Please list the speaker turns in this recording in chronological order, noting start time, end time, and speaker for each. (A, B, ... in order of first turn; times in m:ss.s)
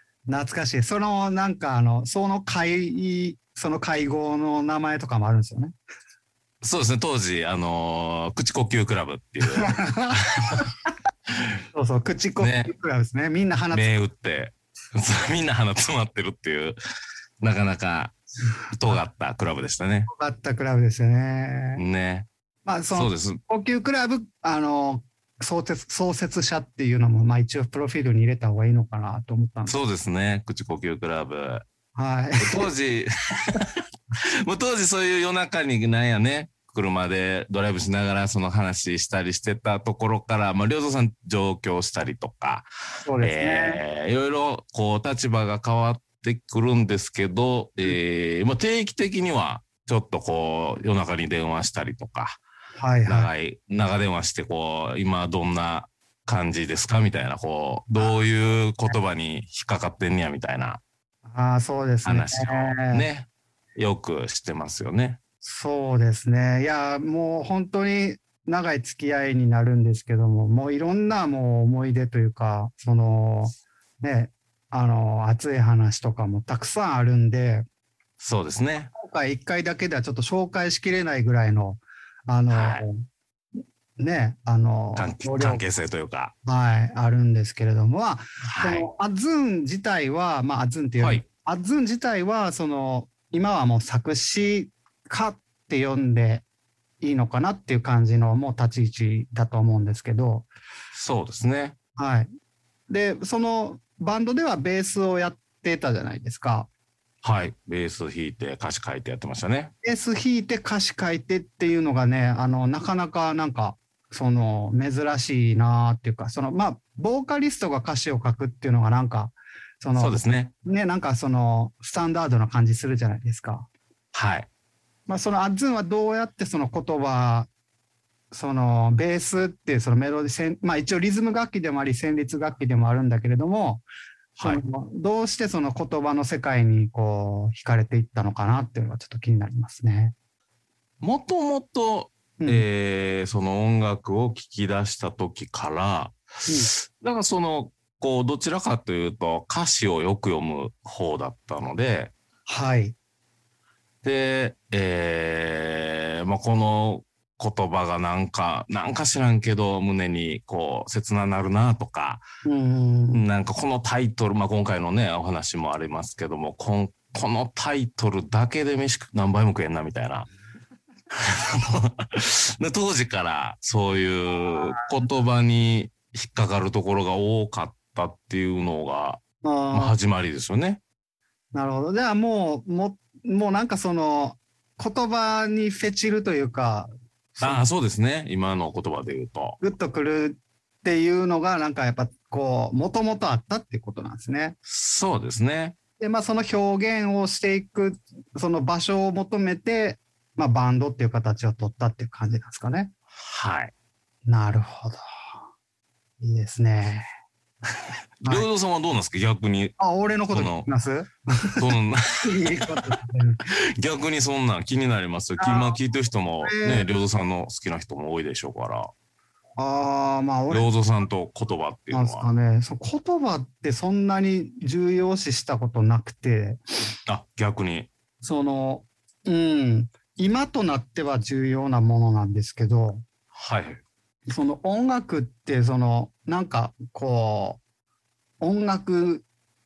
0:00.3-0:05.7 A
0:06.6-0:10.6 B
0:09.5-0:10.6 A
0:11.7-0:13.9 A
0:12.4-0:12.7 B
0:13.7-0:16.8 B
0:17.4-0:18.1 B
0:18.8-0:20.1 B
0:20.1-0:21.8 A
0:21.8-0:22.3 B
0:22.6-0:29.8 A
0:22.9-0:23.4 B
0:29.6-0:31.6 B
0:32.0-0:32.7 A
0:32.4-0:33.7 B
0:34.4-0:42.7 B
0:43.0-0:43.8 A
0:43.2-0:52.4 B
0:52.8-0:53.3 A
0:53.1-1:00.8 B
1:01.2-1:03.1 A
1:02.0-1:05.2 B
1:05.4-1:17.6 A
1:18.2-1:18.9 B
1:18.9-1:23.0 A
1:22.5-1:22.8 B
1:24.0-1:25.6 A
1:25.0-1:26.3 B
1:26.4-1:36.4 A
1:28.4-1:28.9 B
1:31.0-1:31.2 B
1:37.0-1:40.5 A
1:40.9-1:41.8 B
1:42.0-1:42.3 A
1:42.9-1:46.7 A
1:47.2-1:49.7 B
1:49.8-2:03.7 A
2:00.0-2:00.5 B
2:04.1-2:04.5 B
2:05.1-2:07.5 A
2:08.3-2:13.8 A
2:14.4-2:20.1 A
2:21.0-2:26.2 B
2:22.4-2:22.6 A
2:26.7-2:32.1 B
2:32.5-2:32.9 A
2:34.0-2:42.2 B
2:42.4-2:43.2 A
2:43.1-2:50.3 B
2:51.1-2:59.2 B
2:59.4-2:59.9 A
2:59.7-3:00.8 B
3:01.5-3:07.6 A
3:07.4-3:09.6 B
3:09.6-3:14.6 A
3:14.7-3:15.7 B
3:16.0-3:22.9 A
3:23.2-3:23.7 B
3:24.2-3:25.0 A
3:26.2-3:27.0 A
3:28.2-3:29.8 B
3:29.8-3:31.6 A
3:30.3-3:30.7 B
3:31.6-3:32.8 B
3:32.2-3:33.4 A
3:33.5-3:38.9 B
3:35.4-3:35.8 A
3:36.4-3:36.9 A
3:39.6-3:40.7 A
3:40.5-3:42.3 B
3:41.9-3:46.6 A
3:47.1-3:47.9 B
3:48.2-3:53.0 A
3:53.3-3:53.8 B
3:54.3-3:57.6 A
3:58.4-3:59.2 A